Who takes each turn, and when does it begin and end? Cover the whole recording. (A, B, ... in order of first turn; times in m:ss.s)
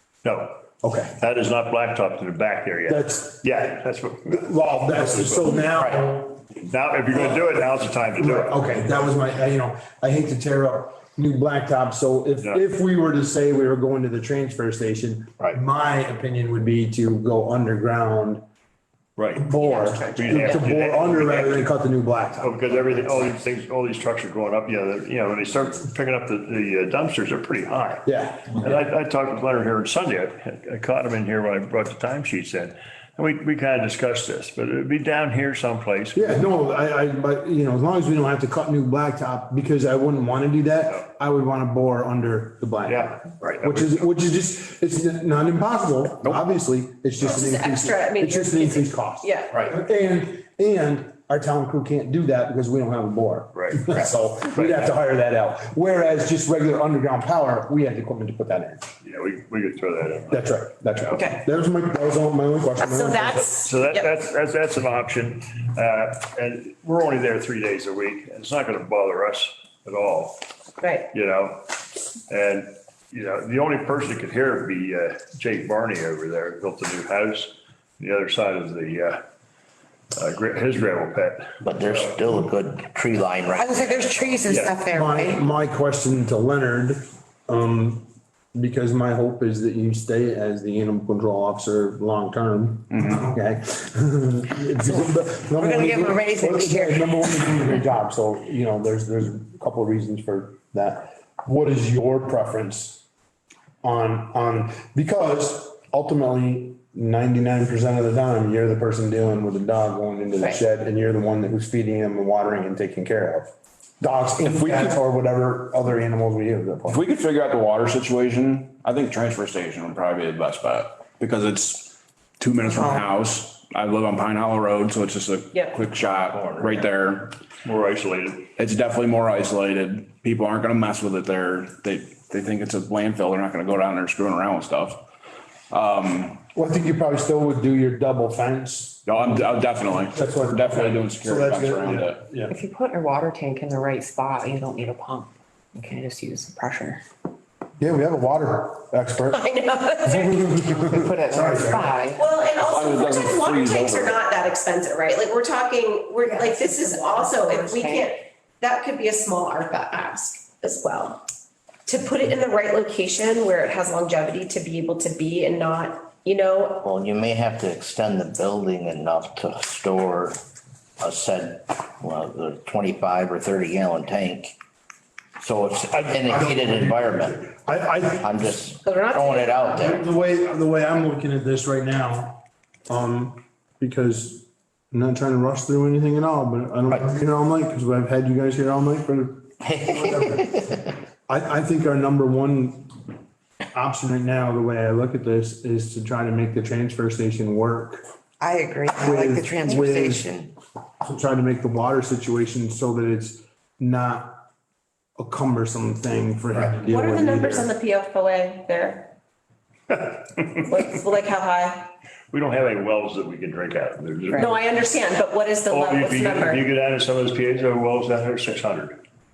0:00.2-0:00.6 A
0:00.8-0:01.1 B
0:01.2-0:05.6 A
0:02.9-0:03.4 B
0:04.3-0:06.4 B
0:05.8-0:06.0 C
0:06.6-0:08.8 A
0:08.2-0:18.4 B
0:19.2-0:19.5 A
0:19.3-0:22.8 B
0:19.6-0:20.8 D
0:20.1-0:21.7 A
0:22.4-0:36.4 A
0:28.0-0:28.5 B
0:36.1-0:58.9 B
0:42.8-0:44.0 A
0:47.2-0:49.6 D
0:53.5-0:54.8 A
0:59.0-1:00.4 A
1:00.3-1:03.5 B
1:01.1-1:01.4 D
1:02.8-1:04.1 D
1:03.5-1:10.4 A
1:10.8-1:11.1 D
1:11.1-1:11.8 A
1:12.3-1:19.2 A
1:20.2-1:22.2 A
1:21.6-1:24.4 C
1:23.5-1:25.4 E
1:24.4-1:24.8 A
1:24.9-1:43.0 B
1:32.9-1:33.2 F
1:35.6-1:37.8 E
1:43.8-1:57.0 B
1:54.4-1:55.0 F
1:56.8-2:07.4 F
2:06.3-2:06.8 C
2:07.6-2:08.5 A
2:08.6-2:15.1 F
2:15.7-2:16.4 F
2:16.5-2:19.0 B
2:19.0-2:22.2 F
2:20.1-2:22.5 B
2:22.5-2:27.0 E
2:27.8-2:29.5 B
2:29.3-2:30.7 D
2:30.0-2:32.0 B
2:30.7-2:32.2 E
2:32.1-2:41.2 D
2:32.6-2:34.2 F
2:36.2-2:38.1 E
2:41.8-2:46.8 D
2:46.8-2:50.4 C
2:51.0-2:54.6 C
2:55.4-2:57.5 C
2:55.9-2:58.6 B
2:58.2-3:00.0 C
2:58.8-2:59.8 D
2:59.8-3:13.0 B
3:09.6-3:10.8 C
3:13.7-3:18.0 B
3:18.4-3:20.5 G
3:18.9-3:20.3 B
3:21.0-3:24.4 B
3:25.2-3:27.7 B
3:26.9-3:29.1 D
3:29.9-3:30.4 A
3:30.6-3:31.9 D
3:32.3-3:34.5 A
3:34.3-3:36.6 D
3:35.7-3:39.0 A